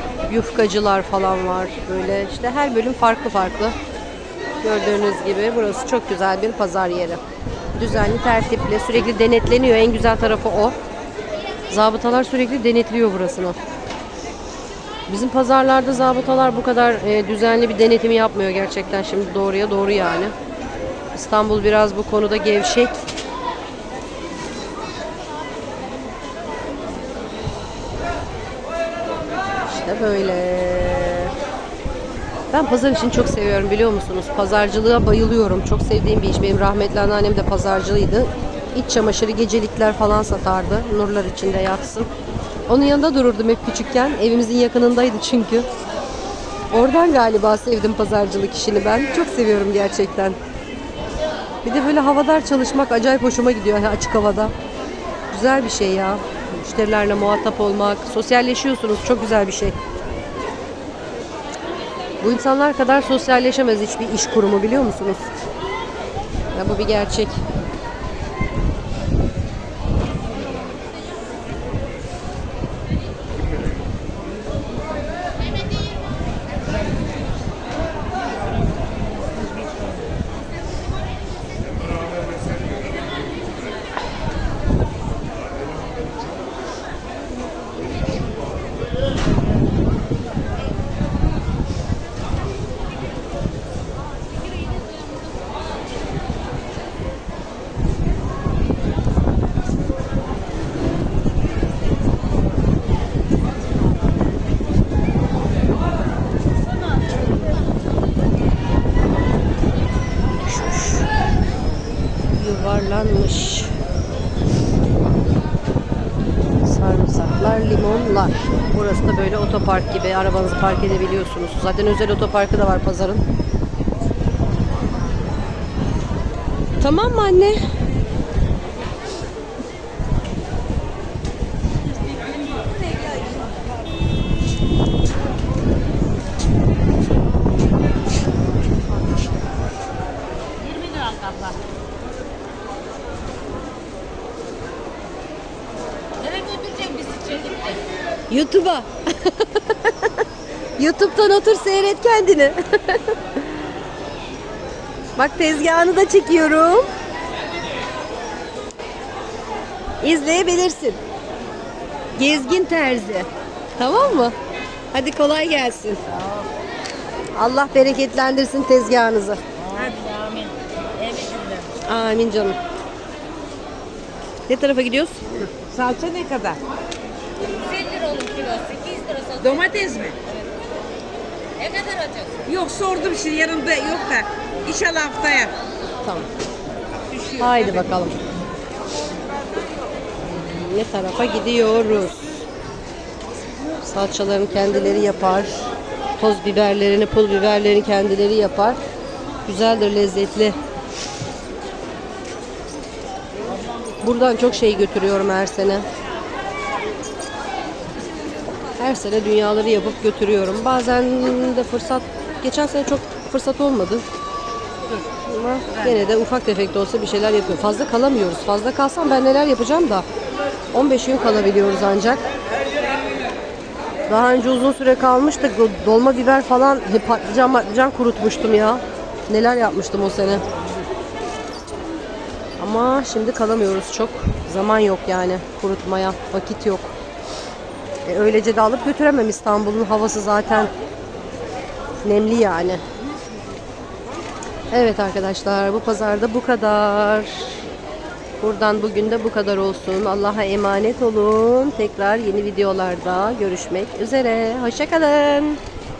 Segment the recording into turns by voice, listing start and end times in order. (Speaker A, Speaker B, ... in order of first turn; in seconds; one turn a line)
Speaker A: 0.3-3.8
Speaker A: 4.6-7.2
Speaker A: 7.8-10.8
Speaker A: 11.7-13.6
Speaker A: 15.1-20.3
Speaker A: 21.1-23.0
Speaker A: 29.7-31.3
Speaker A: 32.5-42.1
Speaker A: 42.7-45.7
Speaker A: 46.7-50.4
Speaker A: 51.6-54.5
Speaker A: 55.3-59.8
Speaker A: 62.2-65.3
Speaker A: 66.5-67.4
Speaker A: 110.4-111.1
Speaker A: 112.3-113.7
Speaker A: 116.7-123.2
Speaker A: 126.8-127.6
Speaker B: 140.7-141.6
Speaker C: 140.7-141.4
Speaker B: 146.2-147.7
Speaker C: 146.3-147.6
Speaker A: 148.3-150.2
Speaker A: 150.8-153.4
Speaker A: 155.2-156.9
Speaker A: 160.0-161.0
Speaker A: 162.2-164.4
Speaker A: 164.9-166.1
Speaker B: 166.2-166.4
Speaker A: 167.3-169.4
Speaker B: 169.6-171.8
Speaker A: 171.8-172.6
Speaker A: 174.5-175.2
Speaker B: 175.7-176.6
Speaker C: 177.6-179.2
Speaker B: 177.7-180.2
Speaker C: 181.6-182.2
Speaker B: 181.7-185.5
Speaker A: 186.0-186.3
Speaker B: 186.9-188.2
Speaker A: 187.4-188.2
Speaker B: 189.0-189.9
Speaker A: 190.3-192.5
Speaker A: 193.8-195.7
Speaker A: 196.2-198.8
Speaker A: 199.5-200.6
Speaker A: 204.0-205.9
Speaker A: 208.8-214.0
Speaker A: 215.3-220.1
Speaker B: 215.7-216.0
Speaker A: 220.7-222.2
Speaker A: 224.1-230.5
Speaker A: 232.6-236.9
Speaker A: 238.1-240.7
Speaker A: 242.0-242.8
Speaker A: 244.7-247.6
Speaker A: 248.4-255.6